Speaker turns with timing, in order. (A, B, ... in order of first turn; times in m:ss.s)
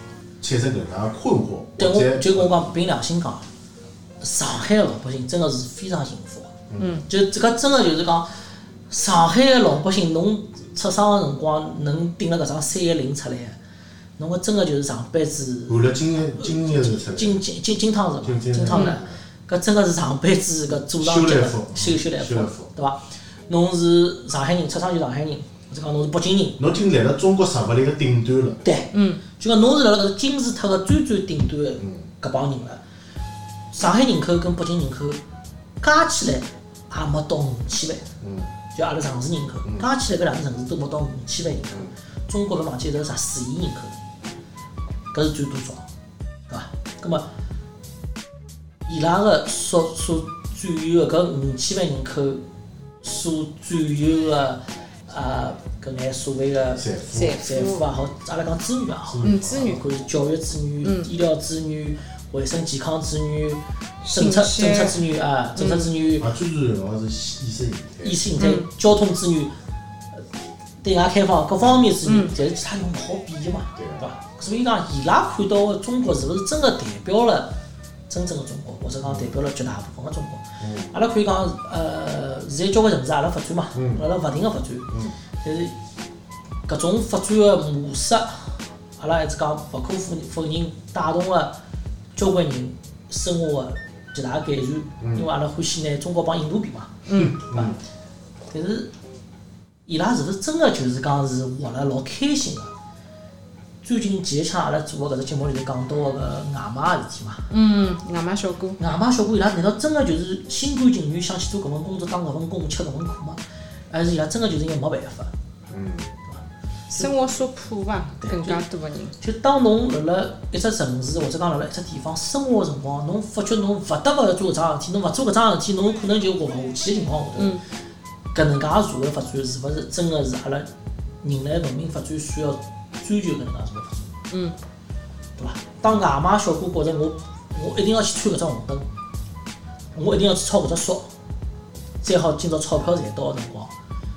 0:00.4-0:02.6 A
0:01.8-0:03.4 B
0:04.2-0:06.5 B
0:06.7-0:07.0 A
0:06.8-0:07.0 C
0:07.0-0:08.3 B
0:08.9-0:13.6 B
0:14.2-0:26.6 B
0:15.7-0:17.4 A
0:18.2-0:19.1 A
0:18.7-0:19.0 C
0:21.0-0:22.7 A
0:26.6-0:28.6 A
0:28.6-0:32.8 B
0:28.9-0:29.2 C
0:31.8-0:32.1 A
0:33.7-0:35.2 B
0:35.8-0:38.1 B
0:38.2-0:38.5 A
0:38.7-0:44.0 B
0:45.1-0:45.8 B
0:46.5-0:47.3 B
0:48.8-0:52.4 B
0:53.0-1:06.3 B
0:56.8-0:57.4 A
0:57.1-0:57.8 C
0:59.1-0:59.8 A
0:59.2-0:59.8 C
1:00.8-1:01.1 C
1:04.0-1:05.0 C
1:05.6-1:05.9 C
1:06.2-1:08.2 A
1:08.0-1:09.5 B
1:08.4-1:08.7 C
1:10.8-1:17.6 B
1:12.0-1:12.3 C
1:13.8-1:14.0 A
1:18.1-1:25.8 B
1:19.0-1:19.3 A
1:20.6-1:20.9 A
1:23.7-1:24.0 A
1:26.7-1:31.6 B
1:32.1-1:37.7 B
1:35.0-1:35.3 A
1:37.0-1:37.3 C
1:37.1-1:37.8 A
1:38.5-1:38.9 B
1:39.9-1:42.7 B
1:43.8-1:47.5 B
1:47.5-1:48.8 C
1:48.8-1:55.3 B
1:55.7-1:56.2 A
1:56.9-1:59.2 C
1:58.2-1:58.6 B
1:59.2-2:07.6 B
2:07.4-2:07.6 C
2:08.3-2:10.7 B
2:11.2-2:14.1 B
2:14.3-2:14.6 C
2:15.4-2:18.9 B
2:19.9-2:21.1 B
2:22.0-2:23.7 B